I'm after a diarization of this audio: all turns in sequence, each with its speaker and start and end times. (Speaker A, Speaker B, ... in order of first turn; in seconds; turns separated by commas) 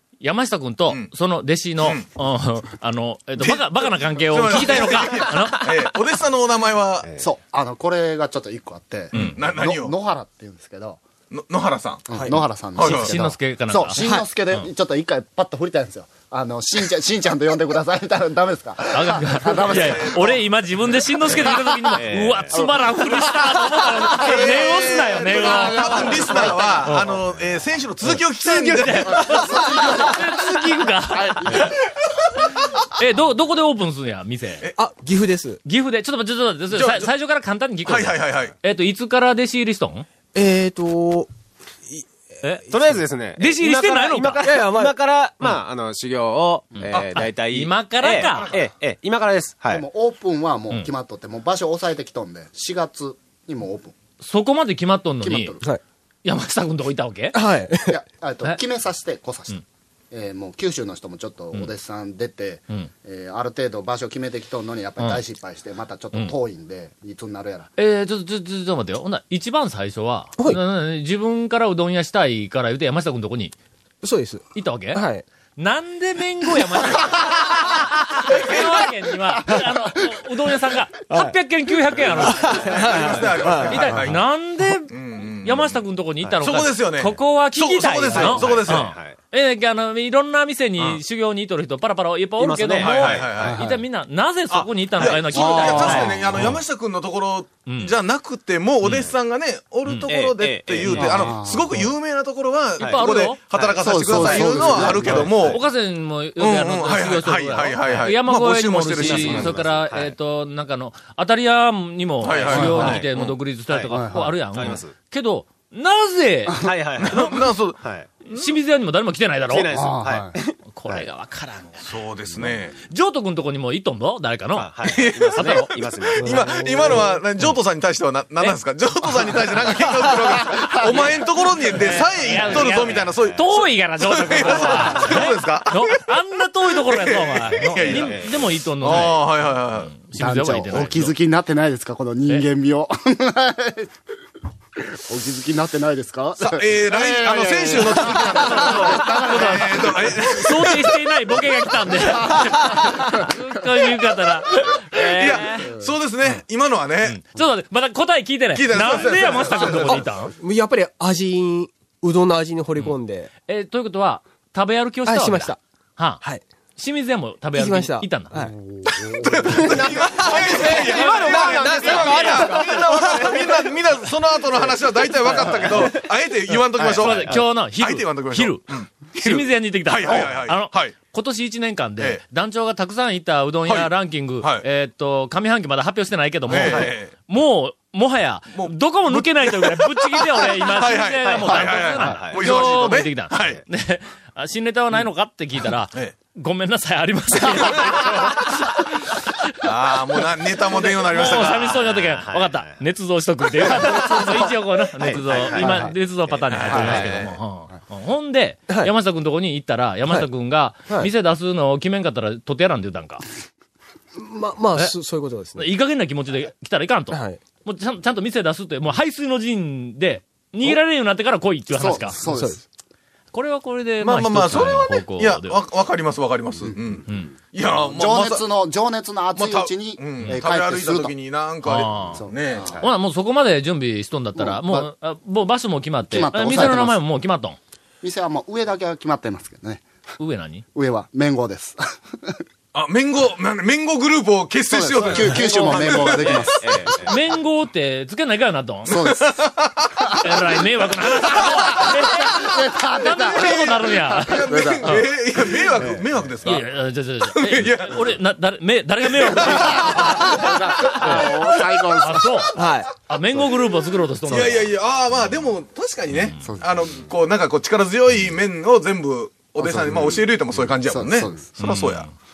Speaker A: 0.2-5.7, Speaker B: 1.8-2.1, Speaker B: 3.4-7.1, Speaker C: 7.2-11.0, Speaker A: 9.1-9.4, Speaker B: 9.1-9.9, Speaker B: 11.3-12.2, Speaker C: 12.1-20.4, Speaker B: 12.8-13.2, Speaker A: 12.8-14.7, Speaker D: 14.0-14.3, Speaker A: 18.9-27.1, Speaker B: 19.7-20.3, Speaker C: 21.2-27.1, Speaker E: 22.0-22.6, Speaker B: 24.2-29.7, Speaker A: 28.0-31.8, Speaker D: 28.4-28.7, Speaker C: 29.2-30.3, Speaker C: 31.1-31.8, Speaker A: 32.7-34.7, Speaker D: 34.8-35.6, Speaker A: 35.6-40.1, Speaker B: 36.7-37.1, Speaker B: 37.9-38.5, Speaker D: 40.3-41.3, Speaker A: 42.4-44.5, Speaker E: 42.7-49.9, Speaker D: 44.4-45.0, Speaker B: 46.9-47.2, Speaker A: 47.1-48.6, Speaker B: 48.2-48.7, Speaker C: 49.7-53.9, Speaker A: 54.2-55.6, Speaker C: 55.2-55.7, Speaker A: 56.2-57.4, Speaker D: 57.3-58.0, Speaker C: 57.9-67.7, Speaker A: 67.8-73.5, Speaker D: 74.0-75.2, Speaker A: 74.5-75.0, Speaker A: 75.6-82.8, Speaker D: 81.1-81.4, Speaker D: 81.9-83.9, Speaker B: 82.2-84.2, Speaker A: 83.7-96.6, Speaker B: 84.9-85.8, Speaker B: 86.4-88.9, Speaker E: 88.1-89.2, Speaker E: 92.4-93.5, Speaker B: 92.8-93.6, Speaker C: 93.4-93.8, Speaker B: 94.5-105.6, Speaker C: 95.3-96.4, Speaker A: 97.7-98.0, Speaker E: 98.8-99.2, Speaker A: 99.9-100.2, Speaker E: 100.0-101.4, Speaker C: 100.9-101.9, Speaker A: 102.8-103.4, Speaker E: 102.8-105.6, Speaker C: 103.8-105.4, Speaker A: 105.1-117.4, Speaker B: 106.4-109.6, Speaker E: 107.8-108.1, Speaker E: 109.0-110.2, Speaker B: 112.2-113.3, Speaker E: 112.3-113.1, Speaker C: 112.5-113.0, Speaker E: 113.7-113.9, Speaker C: 113.9-114.4, Speaker E: 114.5-114.9, Speaker E: 116.6-118.1, Speaker B: 117.0-117.8, Speaker A: 118.2-119.8, Speaker E: 119.5-121.1, Speaker C: 119.7-120.4, Speaker A: 120.7-121.9, Speaker B: 121.8-122.8, Speaker A: 122.9-125.9, Speaker E: 124.5-126.5, Speaker B: 124.8-136.0, Speaker D: 126.3-127.2, Speaker A: 131.8-141.1, Speaker E: 131.8-133.4, Speaker E: 134.7-134.9, Speaker B: 136.9-138.3, Speaker E: 137.6-138.3, Speaker B: 138.8-139.9, Speaker C: 140.2-143.9, Speaker C: 145.0-150.2, Speaker B: 146.4-150.9, Speaker A: 148.2-155.8, Speaker B: 155.1-157.2, Speaker A: 157.0-160.3, Speaker B: 158.6-160.0, Speaker D: 159.5-163.3, Speaker A: 162.8-166.2, Speaker D: 165.1-165.6, Speaker A: 166.8-168.4, Speaker D: 167.5-168.6, Speaker C: 168.8-169.3, Speaker B: 168.9-180.9, Speaker D: 169.4-172.9, Speaker E: 170.3-173.6, Speaker A: 171.0-171.6, Speaker E: 174.6-176.0, Speaker E: 176.6-177.5, Speaker A: 176.8-199.4, Speaker B: 183.7-184.7, Speaker B: 186.5-187.1, Speaker E: 186.5-186.9, Speaker B: 188.5-193.6, Speaker E: 191.2-192.8, Speaker E: 193.3-193.6, Speaker B: 199.6-201.8, Speaker A: 200.7-213.2, Speaker E: 201.4-202.8, Speaker E: 203.6-204.0, Speaker E: 205.0-207.1, Speaker C: 205.3-205.9, Speaker B: 206.5-207.4, Speaker C: 206.7-207.0, Speaker D: 208.7-208.9, Speaker D: 214.2-215.8, Speaker A: 215.6-222.2, Speaker D: 217.1-217.4, Speaker C: 221.7-222.6, Speaker D: 222.2-222.6, Speaker A: 223.3-225.6, Speaker B: 224.0-228.5, Speaker A: 227.1-227.3, Speaker C: 227.8-231.1, Speaker B: 229.3-232.7, Speaker A: 231.6-237.6, Speaker C: 232.1-232.9, Speaker C: 234.3-234.9, Speaker C: 236.1-237.0, Speaker C: 238.0-239.8, Speaker A: 240.2-240.7, Speaker C: 240.7-242.4, Speaker B: 242.7-246.5, Speaker C: 244.7-247.1, Speaker A: 245.0-249.1, Speaker E: 245.6-245.8, Speaker E: 246.6-247.2, Speaker C: 248.9-250.3, Speaker B: 248.9-250.1, Speaker A: 250.2-255.1, Speaker B: 251.2-251.8, Speaker C: 251.8-253.6, Speaker B: 253.2-256.7, Speaker C: 254.4-255.0, Speaker A: 256.4-261.4, Speaker B: 257.3-258.2, Speaker B: 259.0-261.4, Speaker C: 259.4-262.5, Speaker A: 262.0-264.7, Speaker D: 262.6-262.9, Speaker B: 264.3-272.1, Speaker C: 266.4-266.7, Speaker C: 269.6-271.5, Speaker A: 271.6-272.1